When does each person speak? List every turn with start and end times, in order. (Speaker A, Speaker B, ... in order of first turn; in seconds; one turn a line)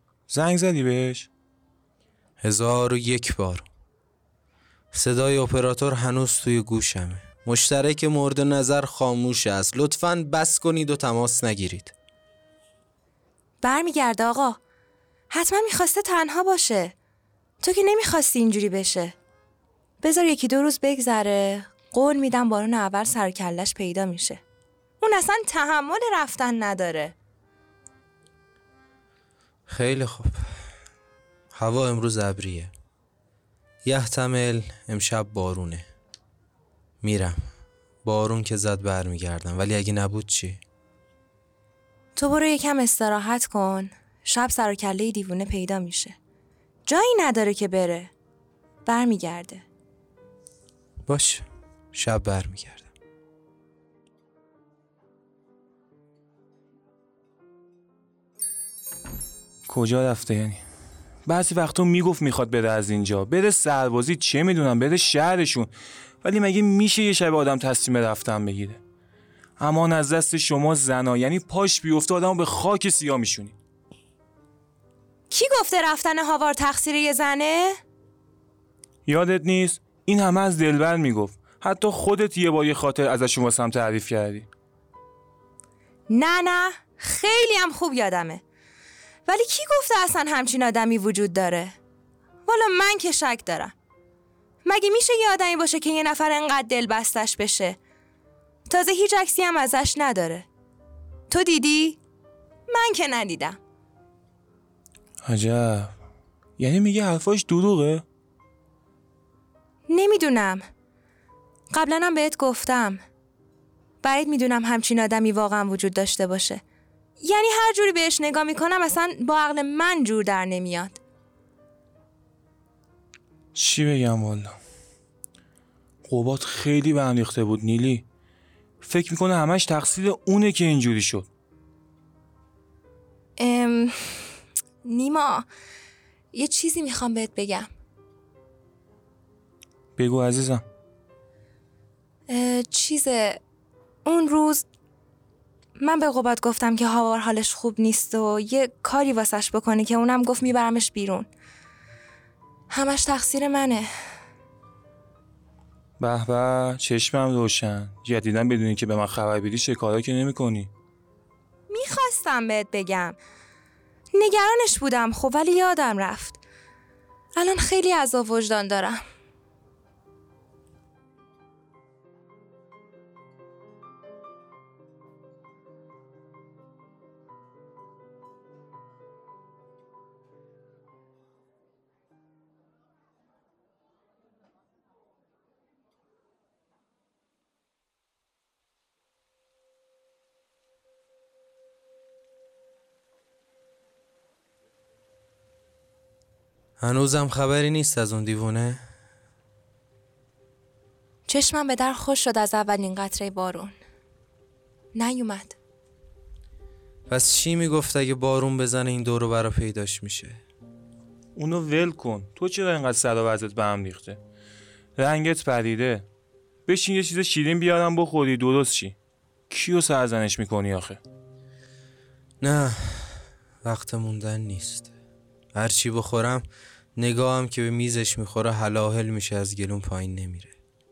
Speaker A: 0.3-1.3
Speaker B: 2.4-3.6
Speaker B: 4.9-11.9
Speaker C: 13.6-14.6
Speaker C: 15.3-16.9
Speaker C: 17.6-19.1
Speaker C: 20.0-24.4
Speaker C: 25.0-27.1
Speaker B: 29.7-30.6
Speaker B: 31.5-32.7
Speaker B: 33.8-35.9
Speaker B: 37.0-37.4
Speaker B: 38.0-40.6
Speaker C: 42.1-46.1
Speaker C: 46.9-48.1
Speaker C: 48.8-49.6
Speaker B: 51.1-52.9
Speaker A: 59.7-60.6
Speaker A: 61.2-68.8
Speaker A: 69.6-73.5
Speaker C: 75.3-77.8
Speaker A: 79.0-84.5
Speaker C: 86.1-88.4
Speaker C: 89.3-91.7
Speaker C: 92.5-93.7
Speaker C: 94.6-97.8
Speaker C: 98.7-100.5
Speaker C: 101.3-102.0
Speaker C: 102.7-103.6
Speaker A: 105.2-105.9
Speaker A: 106.6-108.0
Speaker C: 109.9-110.6
Speaker C: 111.7-113.0
Speaker C: 114.0-116.6
Speaker C: 117.2-121.0
Speaker A: 123.5-124.6
Speaker A: 126.0-128.0
Speaker A: 128.8-131.3
Speaker C: 133.4-135.5
Speaker C: 136.3-137.7
Speaker A: 140.0-140.6
Speaker C: 142.3-143.4
Speaker C: 144.1-144.6
Speaker C: 145.8-151.3
Speaker C: 152.7-153.9
Speaker A: 156.0-160.7
Speaker C: 161.7-163.2
Speaker C: 164.1-166.4
Speaker C: 167.4-169.0
Speaker B: 196.8-198.8
Speaker C: 201.2-203.7
Speaker C: 204.9-205.6
Speaker B: 207.1-210.4
Speaker A: 211.3-214.2
Speaker A: 215.0-216.1
Speaker A: 216.7-218.9
Speaker A: 219.5-221.0
Speaker B: 222.4-224.9
Speaker B: 225.5-230.6